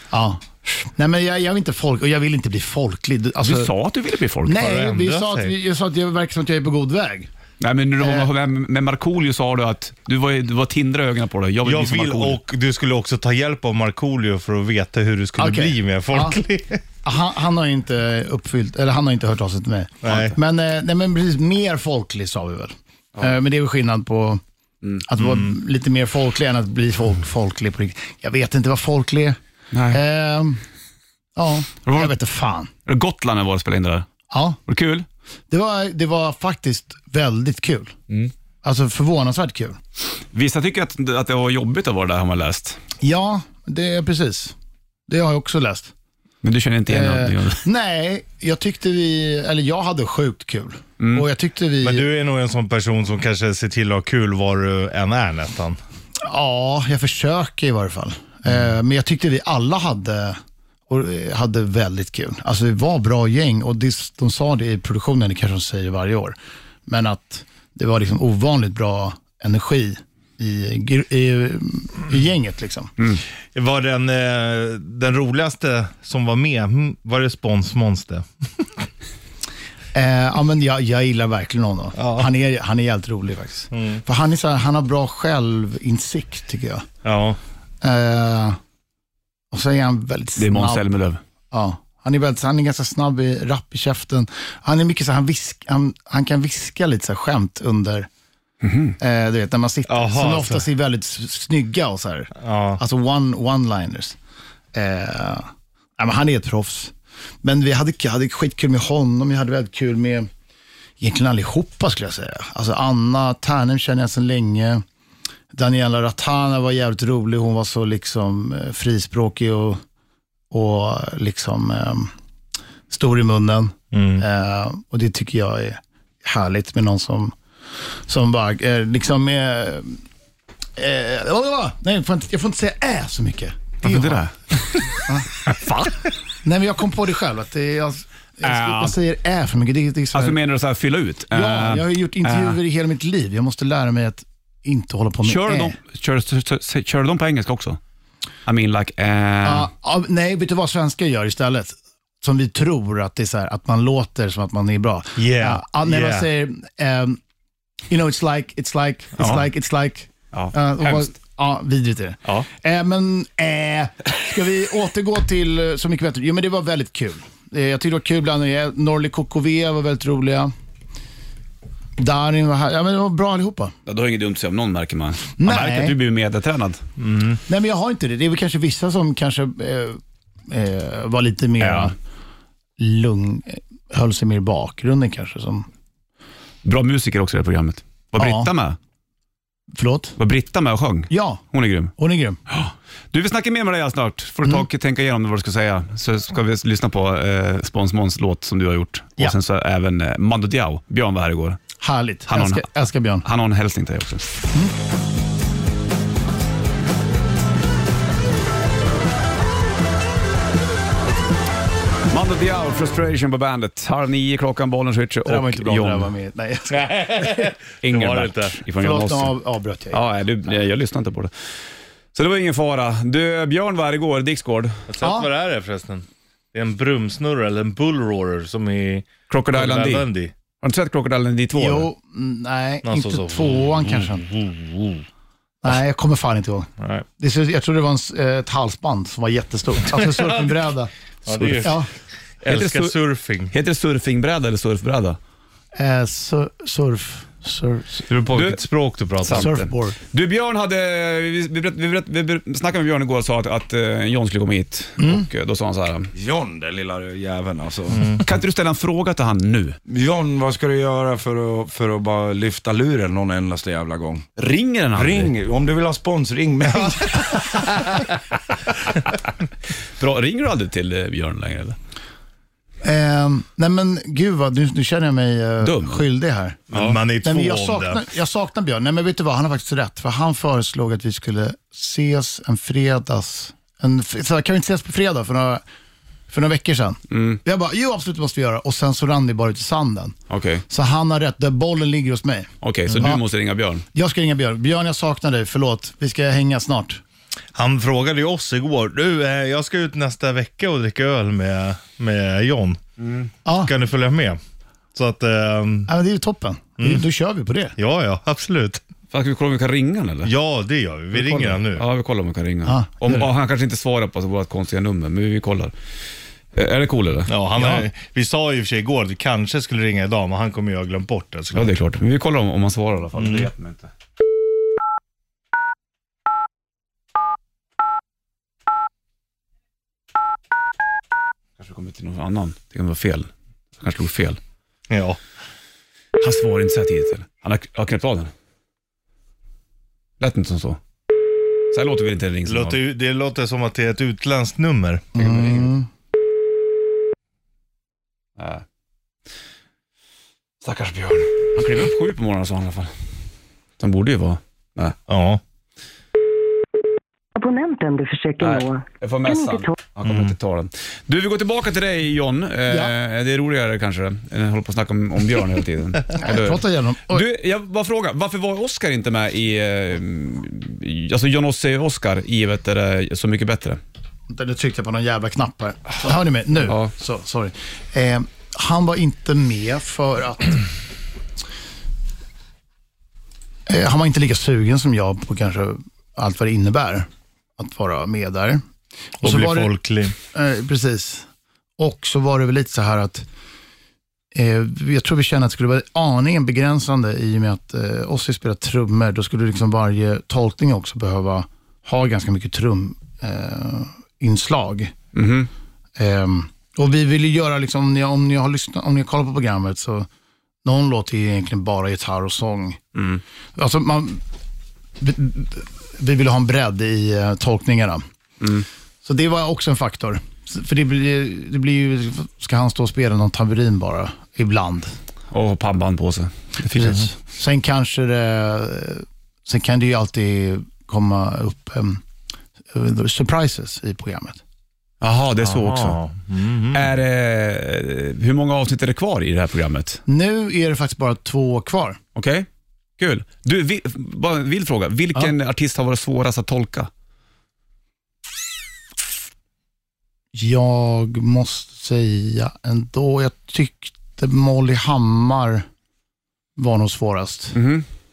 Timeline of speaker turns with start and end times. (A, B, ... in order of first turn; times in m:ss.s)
0:00.1-0:03.7 A
0:03.4-0:04.7 B
0:04.4-0:07.3 A
0:04.5-0:05.5 C
0:07.6-0:12.4 B
0:08.0-0:08.3 A
0:11.6-0:16.8 C
0:15.4-0:16.4 A
0:17.0-0:24.4 A
0:20.0-0:20.3 C
0:25.0-0:29.4 A
0:25.2-0:25.5 C
0:29.7-0:30.0 B
0:29.9-0:30.6 A
0:31.4-0:32.7 A
0:31.9-0:32.1 B
0:32.8-0:34.1 B
0:34.3-0:34.6 A
0:34.7-0:35.0 B
0:35.5-0:37.9 A
0:38.6-0:39.8 A
0:40.3-0:42.8 B
0:43.0-0:44.5 A
0:45.1-0:45.9 A
0:46.4-0:47.6 B
0:46.9-0:52.0 A
0:51.0-0:51.2 B
0:51.8-0:55.8 C
0:56.2-1:06.4 A
1:06.9-1:12.9 A
1:13.5-1:18.8 C
1:19.9-1:26.8 A
1:22.0-1:22.3 C
1:23.7-1:24.0 C
1:27.0-1:27.4 C
1:27.8-1:28.6 A
1:29.5-1:30.8 A
1:30.4-1:31.2 B
1:31.5-1:38.1 A
1:38.6-1:39.0 B
1:39.0-1:44.2 A
1:39.9-1:40.7 C
1:42.4-1:42.8 C
1:44.7-1:50.3 A
1:51.0-1:54.8 A
1:55.5-1:59.8 A
2:00.5-2:02.1 A
2:02.9-2:07.3 A
2:03.9-2:04.2 C
2:08.1-2:10.0 A
2:10.8-2:14.2 A
2:13.8-2:16.0 B
2:14.9-2:15.5 A
2:16.4-2:20.4 A
2:18.4-2:19.0 B
2:20.1-2:22.6 B
2:21.3-2:25.8 A
2:25.2-2:27.8 B
2:28.4-2:29.7 B
2:29.4-2:37.2 A
2:35.2-2:36.3 C
2:37.9-2:50.5 A
2:40.3-2:41.0 B
2:52.0-2:53.7 A
2:53.8-2:56.8 B
2:55.4-2:56.0 A
2:57.0-2:57.4 C
2:57.5-3:01.9 A
3:01.6-3:01.9 B
3:02.8-3:05.7 A
3:06.6-3:08.8 B
3:08.2-3:08.5 A
3:09.7-3:10.2 A
3:10.2-3:11.9 B
3:11.1-3:11.4 A
3:12.0-3:12.4 A
3:12.5-3:21.6 B
3:21.8-3:23.2 A
3:22.3-3:22.7 B
3:23.2-3:24.3 B
3:32.1-3:36.1 B
3:35.2-3:37.4 A
3:36.7-3:38.6 C
3:37.8-3:39.3 B
3:38.8-3:40.0 A
3:39.9-3:41.3 B
3:42.1-3:44.8 B
3:44.9-3:50.3 C
3:45.0-3:45.3 A
3:49.3-3:50.1 B
3:50.6-3:51.9 B
3:51.5-3:54.2 A
3:52.8-3:55.0 C
3:55.6-4:00.9 A
3:56.8-3:57.0 C
3:59.9-4:00.5 C
4:01.2-4:01.8 C
4:01.3-4:01.7 B
4:01.6-4:01.9 A
4:02.4-4:03.5 C
4:02.4-4:02.9 B
4:03.5-4:05.2 B
4:05.7-4:08.0 A
4:08.1-4:09.5 C
4:08.1-4:08.6 B
4:09.2-4:16.1 B
4:09.3-4:10.0 A
4:15.0-4:15.3 A
4:16.1-4:17.9 D
4:18.2-4:19.8 B
4:19.9-4:24.2 D
4:24.4-4:25.3 B
4:25.0-4:27.2 D
4:30.0-4:31.8 B
4:32.8-4:36.6 A
4:35.6-4:36.0 B
4:36.7-4:38.0 C
4:36.7-4:37.0 B
4:37.2-4:45.6 A
4:46.3-4:50.1 A
4:47.1-4:47.4 B
4:50.3-4:50.6 B
4:50.7-4:53.2 A
4:52.6-4:53.8 B
4:53.9-4:57.0 A
4:57.5-5:02.8 C
5:03.0-5:03.3 B
5:03.4-5:03.7 A
5:03.6-5:04.4 C
5:04.9-5:05.9 C
5:05.9-5:07.8 A
5:07.8-5:08.8 C
5:09.1-5:10.3 B
5:10.2-5:11.8 C
5:11.1-5:15.7 B
5:12.6-5:13.3 A
5:16.5-5:17.3 B
5:17.3-5:21.8 C
5:17.6-5:17.8 A
5:21.5-5:23.9 B
5:23.1-5:23.5 C
5:31.6-5:34.4 B
5:34.9-5:35.2 C
5:36.2-5:38.3 B
5:40.2-5:40.8 B
5:41.7-5:42.8 B
5:42.4-5:45.1 C
5:45.1-5:45.9 A
5:45.2-5:45.7 B
5:48.4-5:48.6 B
5:50.6-5:52.9 B
5:53.8-5:55.0 B
5:55.1-5:55.4 C
5:57.3-5:59.7 E
5:58.4-6:13.8 B
6:00.0-6:00.3 C
6:06.1-6:07.2 A
6:14.3-6:20.6 A
6:23.7-6:28.6 A
6:29.2-6:30.1 C
6:29.2-6:29.7 A
6:30.3-6:31.3 A
6:31.8-6:33.2 A
6:34.3-6:44.9 A
6:45.1-6:45.5 B
6:46.0-6:50.1 A
6:50.6-6:52.8 A
6:52.9-6:53.2 B
6:53.6-6:54.2 A
6:55.0-6:58.0 A
6:58.4-6:58.6 B
6:59.0-7:04.9 A
7:05.3-7:07.0 B
7:06.7-7:12.0 A
7:12.7-7:14.4 A
7:15.0-7:16.0 B
7:15.4-7:16.9 C
7:16.7-7:20.0 B
7:20.1-7:22.0 A
7:22.1-7:22.5 B
7:23.0-7:26.9 B
7:30.3-7:35.6 A
7:36.6-7:37.6 A
7:37.5-7:37.8 B